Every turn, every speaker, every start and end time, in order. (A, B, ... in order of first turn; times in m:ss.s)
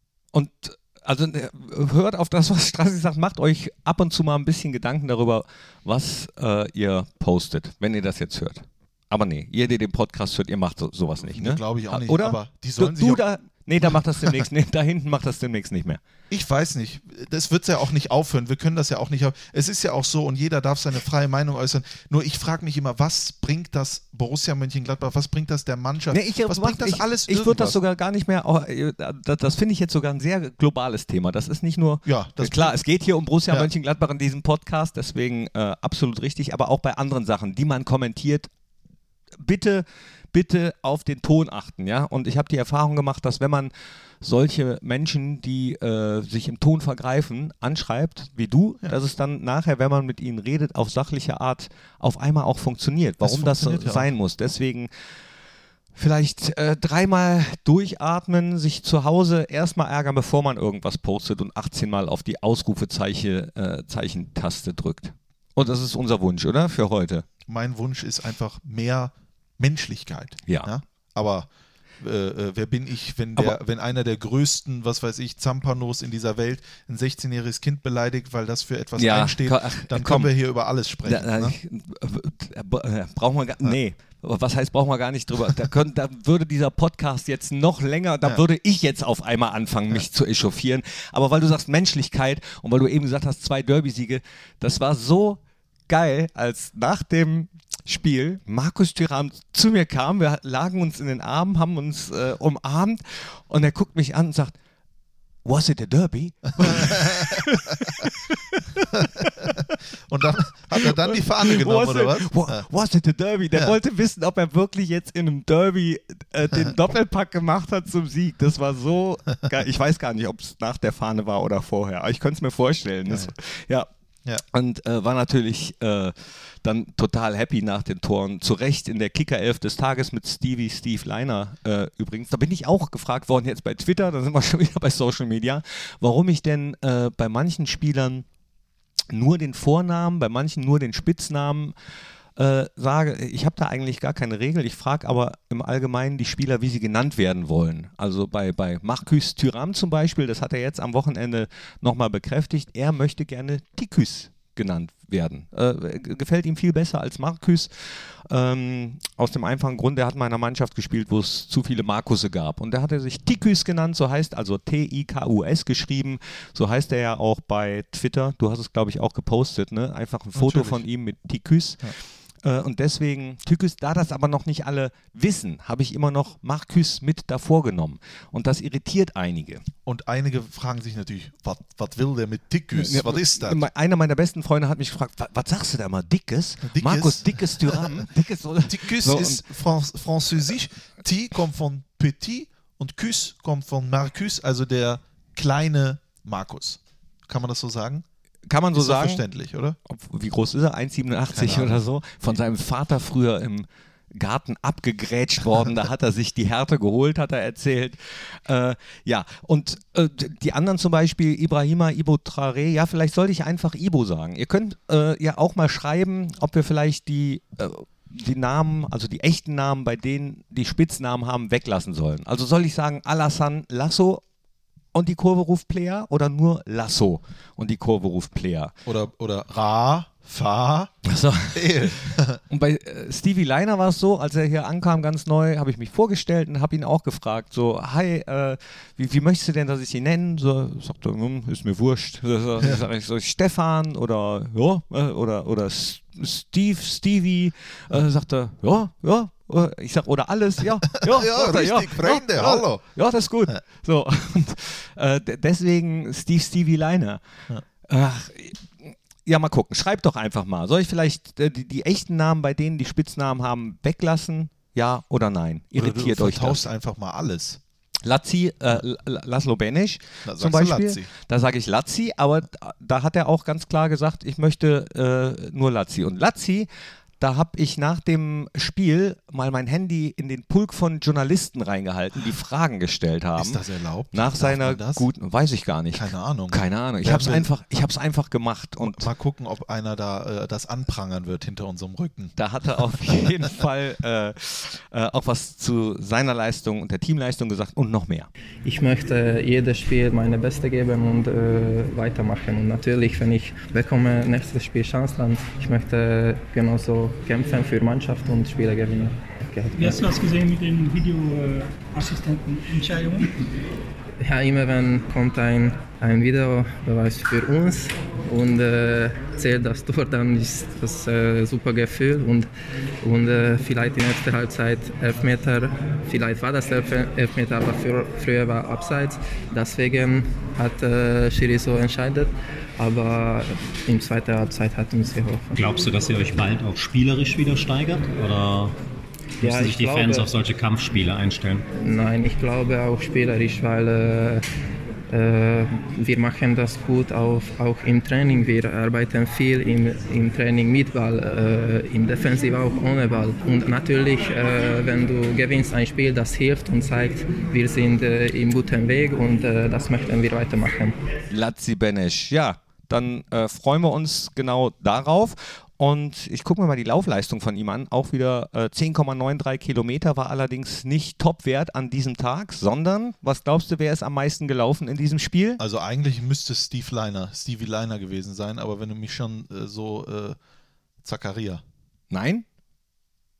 0:00.3-0:16.0 A
0:11.2-0:13.2 B
0:13.8-0:14.4 B
0:16.3-0:27.8 B
0:26.1-0:38.5 A
0:32.0-0:32.8 B
0:39.4-0:54.9 A
0:53.2-0:54.1 B
0:55.9-1:07.2 A
1:07.5-1:21.6 B
1:19.0-1:20.3 A
1:21.0-1:44.5 A
1:45.4-1:49.7 A
1:46.7-1:47.2 B
1:49.2-1:52.6 B
1:50.8-2:03.9 A
2:04.5-2:18.2 A
2:19.1-2:21.8 A
2:22.4-2:59.6 A
2:50.4-2:50.8 B
2:59.8-3:03.6 B
3:02.7-3:09.4 A
3:06.6-3:08.0 B
3:08.6-3:18.0 B
3:18.4-3:19.2 A
3:18.7-3:19.8 B
3:19.8-3:44.2 A
3:21.3-3:21.8 B
3:44.9-3:48.7 A
3:48.8-3:50.9 B
3:51.0-4:17.2 A
3:51.5-3:52.4 B
4:11.0-4:12.8 B
4:17.8-4:26.6 A
4:25.7-4:27.6 B
4:28.0-4:36.7 A
4:30.2-4:31.1 B
4:37.2-4:43.6 A
4:43.4-4:45.0 B
4:44.1-4:49.1 A
4:45.9-4:47.5 B
4:48.8-4:52.4 B
4:52.4-4:58.3 A
4:52.9-4:53.3 B
4:58.6-5:10.0 C
5:09.8-5:13.3 D
5:14.2-5:22.5 C
5:23.0-5:35.7 C
5:35.6-5:38.7 E
5:39.4-5:40.3 C
5:39.4-5:41.6 E
5:41.8-5:44.4 C
5:45.1-6:01.0 C
6:01.3-6:15.6 A
6:15.6-6:20.4 B
6:21.0-6:21.6 B
6:22.1-6:22.4 A